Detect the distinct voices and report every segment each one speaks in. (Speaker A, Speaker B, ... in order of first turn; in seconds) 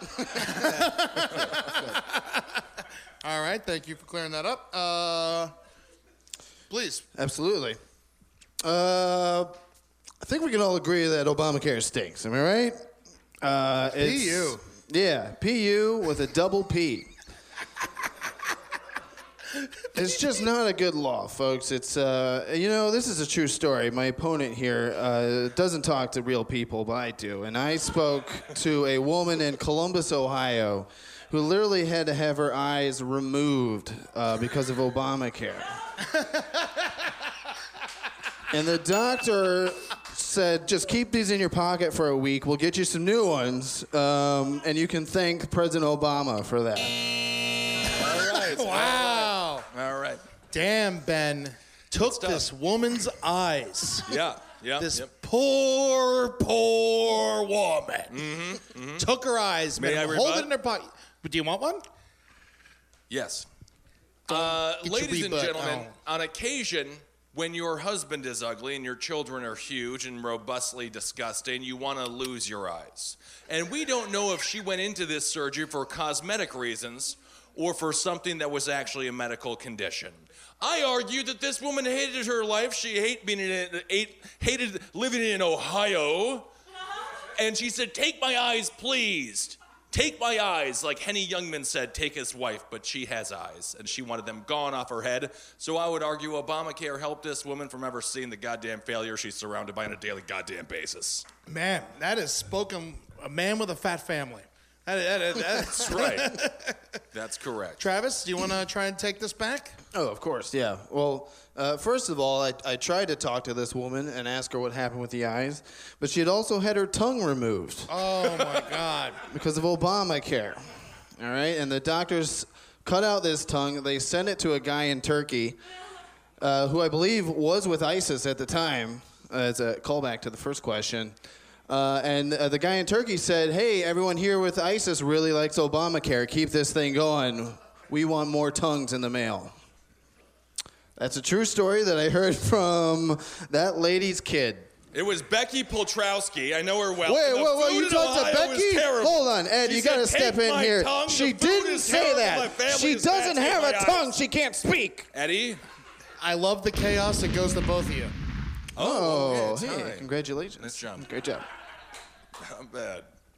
Speaker A: 0.3-2.6, 3.2-5.5, 6.7-7.0, 14.0-14.6, 36.2-36.5, 48.0-49.7, 50.5-54.1, 54.8-58.2, 59.0-61.8, 64.3-65.9, 101.5-106.8, 107.8-109.8, 117.9-119.2, 156.2-158.1
Speaker B: 7.1-7.8, 8.6-9.5, 10.2-12.8, 13.4-17.1, 19.9-35.8, 38.5-47.0, 109.9-118.0, 119.2-125.6, 126.4-131.1, 131.7-139.5, 141.0-144.7, 147.0-155.1, 158.8-161.5
Speaker C: 47.9-50.2, 52.0-52.5, 54.1-55.1, 58.1-59.1, 59.8-60.5, 63.1-63.5, 64.3-86.5, 87.4-101.3, 105.7-106.4, 107.1-107.8, 144.9-154.1, 155.1-155.6, 158.7-160.1, 160.6-161.1, 162.4-163.1